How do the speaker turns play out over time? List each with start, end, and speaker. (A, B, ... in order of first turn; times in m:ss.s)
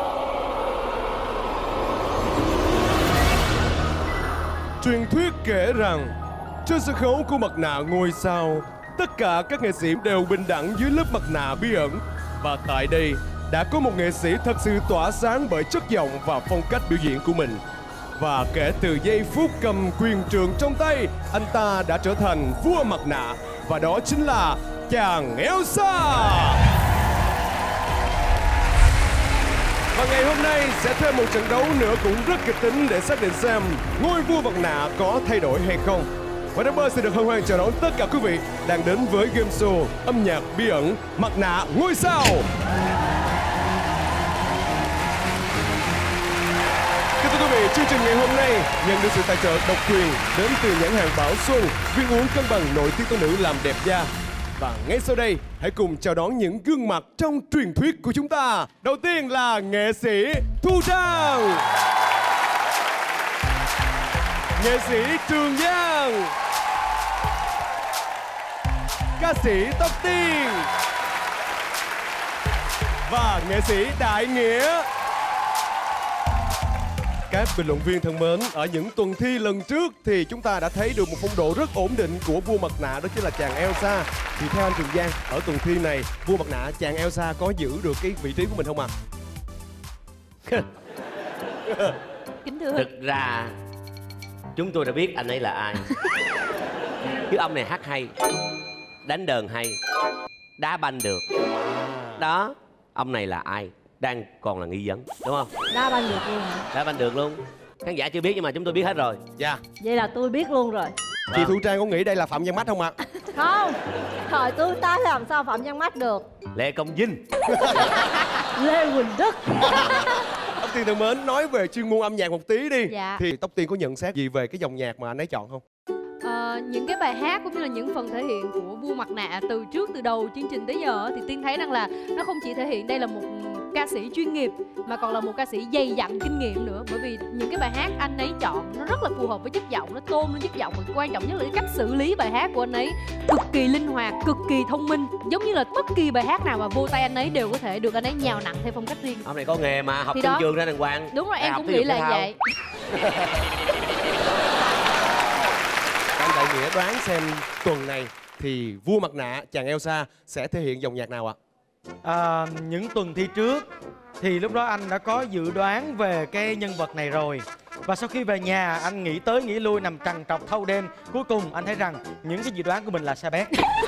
0:04.8-0:06.1 A
0:06.6-0:17.6 A
0:18.2-0:26.6 A
0:29.9-0:42.5 A
0:47.2-1:01.6 A
1:04.6-1:06.3 A
1:09.2-1:10.7 A
1:13.0-1:14.9 A
1:17.3-1:28.9 A
1:32.4-1:32.9 B
1:32.8-1:33.5 C
1:34.6-1:35.8 C
1:37.3-1:38.1 C
1:39.0-1:39.8 C
1:40.6-1:41.2 C
1:42.2-1:45.5 C
1:45.7-1:46.6 D
1:46.7-1:49.2 C
1:49.8-1:50.9 D
1:51.3-1:52.9 A
1:53.3-1:53.8 D
1:54.3-1:56.2 D
1:56.5-1:57.2 C
1:58.6-1:59.8 D
2:00.6-2:05.6 A
2:02.9-2:03.2 B
2:06.2-2:29.2 B
2:29.2-2:32.3 C
2:30.1-2:30.4 B
2:31.1-2:32.3 B
2:36.2-2:41.4 A
2:42.0-2:43.7 E
2:44.2-2:53.5 E